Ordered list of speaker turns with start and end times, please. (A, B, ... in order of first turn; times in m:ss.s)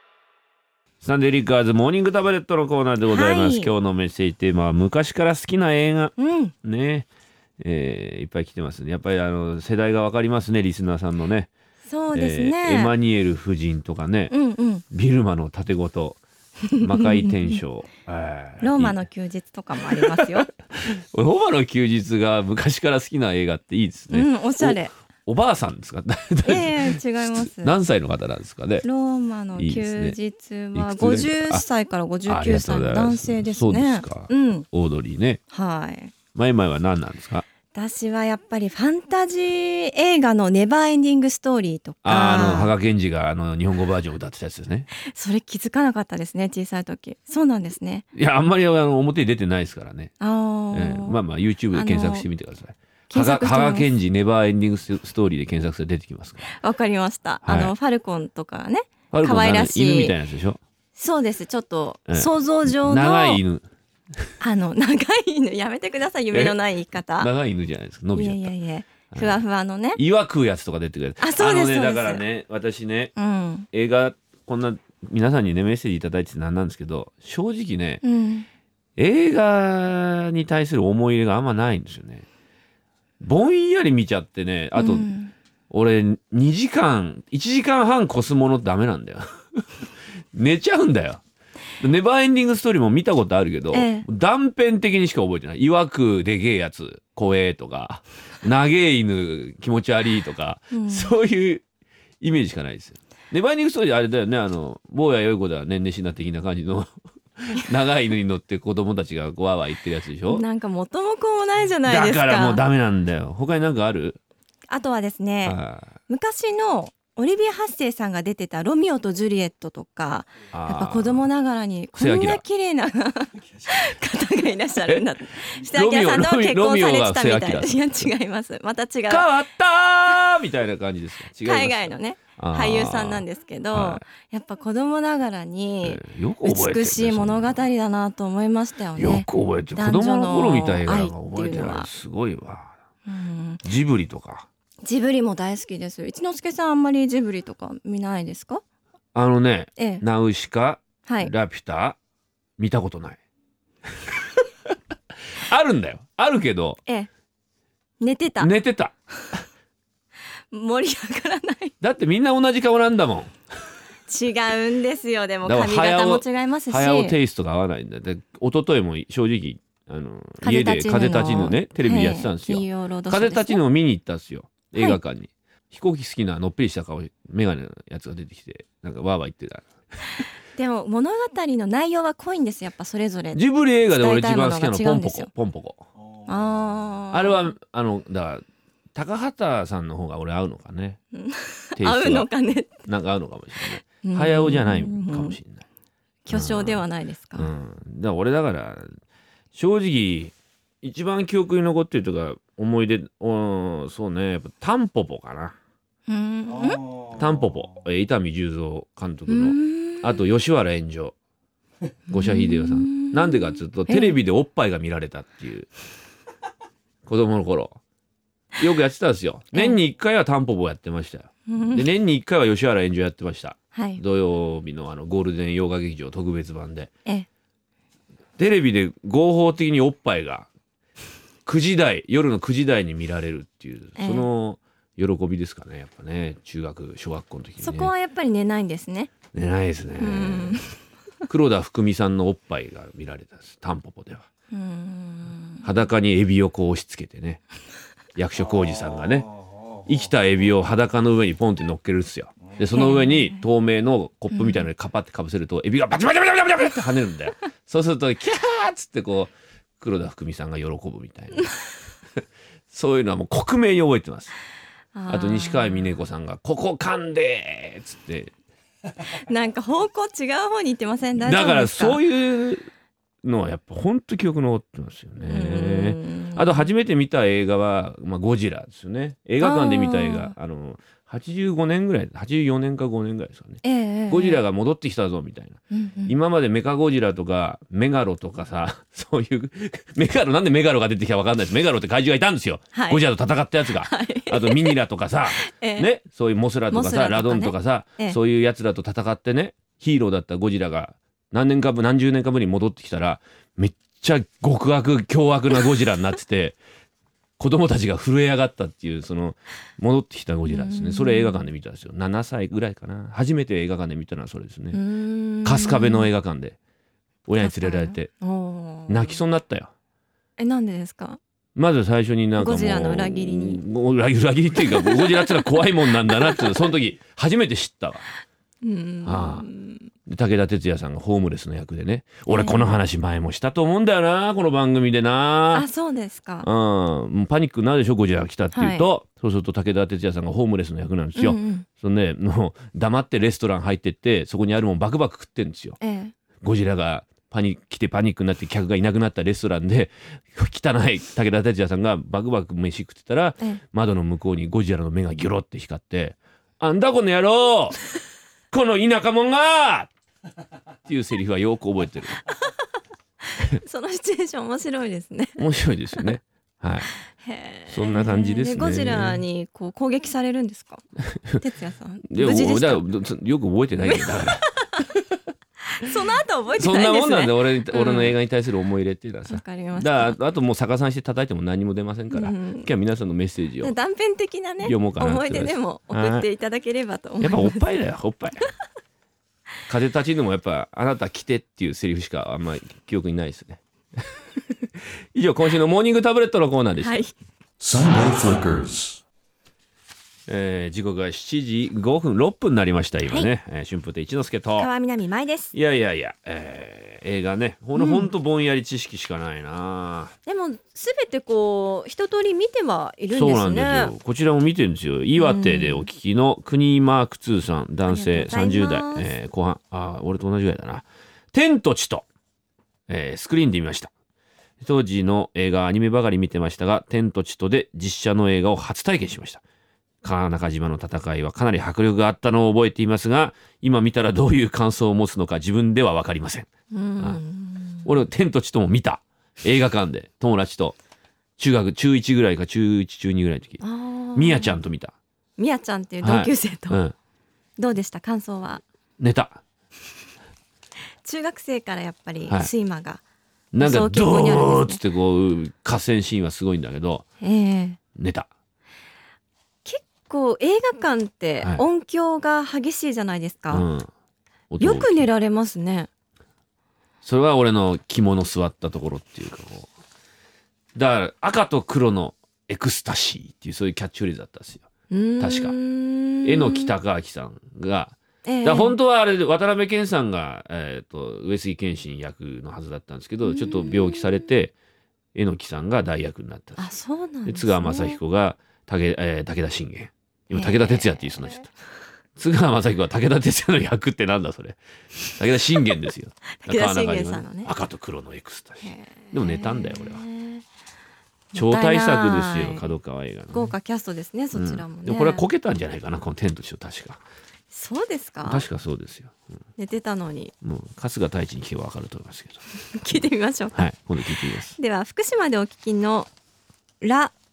0:01.0-0:07.1 A
0:03.1-0:03.7 B
0:06.2-0:06.5 B
0:07.6-0:11.5 A
0:11.8-0:12.9 B
0:12.1-0:14.3 A
0:14.3-0:14.8 B
0:14.9-0:16.2 A
0:16.7-0:17.6 B
0:16.8-0:19.0 A
0:18.6-0:20.5 B
0:20.0-0:28.8 A
0:24.1-0:24.9 B
0:26.4-0:27.7 B
0:28.8-0:34.7 B
0:29.6-0:30.2 A
0:30.7-0:31.6 A
0:32.3-0:35.4 A
0:35.5-0:36.1 B
0:36.3-0:37.4 A
0:37.7-0:42.7 B
0:42.0-0:44.9 A
0:45.0-0:48.0 B
0:48.1-0:50.1 A
0:50.2-0:51.2 B
0:50.7-0:56.5 A
0:51.7-0:52.3 B
0:53.1-0:53.9 B
0:56.4-1:00.1 B
0:57.4-0:57.7 A
0:59.1-1:00.6 A
1:01.0-1:03.4 B
1:02.1-1:03.6 A
1:04.4-1:07.3 B
1:06.3-1:06.6 A
1:07.2-1:08.5 A
1:08.1-1:10.0 B
1:09.1-1:09.4 A
1:10.0-1:13.1 A
1:11.2-1:12.2 B
1:13.2-1:13.7 B
1:13.7-1:18.0 A
1:18.0-1:18.5 B
1:19.0-1:22.2 A
1:23.2-1:25.1 A
1:24.8-1:25.3 B
1:25.7-1:29.6 A
1:30.3-1:31.2 A
1:31.8-1:41.6 A
1:33.7-1:34.0 B
1:40.7-1:41.1 B
1:42.2-1:50.4 A
1:50.3-1:52.6 B
1:51.8-1:54.2 A
1:54.7-2:09.3 B
1:55.4-1:55.9 A
2:00.5-2:01.3 A
2:02.0-2:02.4 A
2:04.9-2:08.0 A
2:09.1-2:14.0 A
2:11.4-2:21.9 B
2:15.8-2:17.6 A
2:19.0-2:22.7 A
2:23.0-2:23.6 B
2:23.6-2:24.4 A
2:24.8-2:28.6 B
2:29.1-2:32.0 A
2:29.8-2:30.0 B
2:31.0-2:31.3 B
2:32.6-2:33.2 A
2:35.4-2:36.8 A
2:38.0-2:38.5 B
2:38.4-2:38.9 A
2:40.5-2:41.7 B
2:41.8-2:43.3 A
2:44.1-2:47.2 B
2:45.4-2:59.7 A
2:50.4-2:53.6 B
3:00.5-3:05.3 B
3:03.3-3:05.8 A
3:06.3-3:07.4 B
3:07.1-3:08.4 A
3:08.9-3:11.0 A
3:11.1-3:12.9 B
3:11.8-3:12.3 A
3:12.8-3:15.6 A
3:14.0-3:15.4 B
3:16.2-3:17.5 B
3:16.3-3:16.8 A
3:17.3-3:18.9 A
3:19.5-3:25.5 A
3:26.1-3:26.8 B
3:27.1-3:31.1 A
3:29.3-3:30.2 B
3:32.1-3:34.2 B
3:32.1-3:35.7 A
3:37.0-3:37.8 A
3:38.6-3:46.9 A
3:41.5-3:41.8 B
3:43.7-3:44.0 B
3:48.4-3:50.5 A
3:51.4-3:57.9 A
3:54.0-3:54.3 B
3:57.6-3:59.1 B
3:59.3-4:00.6 A
4:00.0-4:00.7 B
4:01.3-4:04.2 A
4:04.5-4:05.7 B
4:05.6-4:07.4 A
4:08.2-4:09.3 A
4:09.8-4:21.5 A
4:12.7-4:13.4 B
4:14.3-4:14.7 B
4:22.7-4:24.3 A
4:24.9-4:25.9 B
4:25.1-4:28.3 A
4:29.2-4:32.0 B
4:31.2-4:32.7 A
4:33.2-5:06.6 A
4:35.3-4:36.7 B
4:39.4-4:40.3 B
4:43.6-4:44.4 B
4:45.7-4:46.1 B
4:52.7-4:53.0 B
4:53.8-4:54.7 B
4:55.4-4:55.9 B
4:56.7-4:58.2 B
5:07.4-5:14.8 A
5:10.5-5:11.4 B
5:14.7-5:16.1 B
5:15.4-5:16.6 A
5:17.3-5:18.1 A
5:17.4-5:19.2 B
5:18.9-5:19.7 A
5:20.4-5:21.2 B
5:21.6-5:28.1 A
5:22.4-5:23.6 B
5:24.6-5:26.7 B
5:28.6-5:29.9 B
5:29.0-5:29.4 A
5:30.0-5:35.6 A
5:32.3-5:32.8 B
5:35.5-5:36.5 B
5:36.4-5:45.8 A
5:38.5-5:38.8 B
5:41.2-5:41.6 B
5:45.8-5:46.1 B
5:46.4-5:57.8 A
5:58.5-5:59.9 A
6:00.8-6:02.2 A
6:03.4-6:05.4 B
6:05.4-6:06.9 A
6:07.1-6:12.8 B
6:07.7-6:09.2 A
6:12.1-6:14.5 A
6:13.8-6:14.8 B
6:15.7-6:18.1 B
6:16.6-6:23.7 A
6:19.3-6:20.2 B
6:22.1-6:22.7 B
6:23.6-6:27.6 B
6:24.6-6:26.3 A
6:27.2-6:28.4 A
6:29.7-6:33.6 A
6:35.1-6:37.0 A
6:36.8-6:37.1 B
6:37.7-6:38.6 A
6:40.3-6:44.7 A
6:44.6-6:45.5 B
6:45.5-6:50.1 A
6:47.7-6:48.1 B
6:50.2-6:53.9 B
6:53.1-7:02.0 A
6:55.2-6:55.9 B
6:57.9-6:59.1 B
7:02.9-7:03.9 A
7:04.6-7:09.4 A
7:10.0-7:16.5 A
7:16.7-7:17.9 B
7:17.8-7:20.8 A
7:21.4-7:23.6 A
7:23.6-7:24.6 B
7:24.1-7:25.0 A
7:25.4-7:26.8 B
7:26.0-7:26.9 A
7:27.6-7:28.6 B
7:29.0-7:29.4 A
7:31.0-7:33.0 B
7:32.2-7:32.5 A
7:33.5-7:37.0 A
7:33.6-7:34.8 B
7:37.2-7:37.8 B
7:38.0-7:38.3 A
7:39.6-7:43.6 B
7:43.5-7:43.9 A
7:44.5-7:45.0 A
7:44.6-7:45.9 B
7:47.0-7:49.7 A
7:50.7-7:54.7 A
7:54.9-7:56.7 B
7:55.2-7:55.5 A
7:56.2-8:04.5 A
7:58.2-7:58.8 B
8:03.2-8:04.2 B
8:05.1-8:06.7 A
8:06.6-8:08.0 B
8:07.2-8:11.5 A
8:10.3-8:11.5 B
8:12.2-8:20.0 A
8:16.4-8:17.5 B
8:18.6-8:20.4 B
8:21.3-8:22.7 B
8:21.3-8:23.5 A
8:23.3-8:25.2 B
8:24.3-8:27.0 A
8:27.5-8:28.4 B
8:28.2-8:29.2 A
8:29.6-8:30.3 B
8:30.4-8:32.4 A
8:32.7-8:33.7 B
8:33.5-8:34.6 A
8:34.5-8:36.1 B
8:36.8-8:37.1 B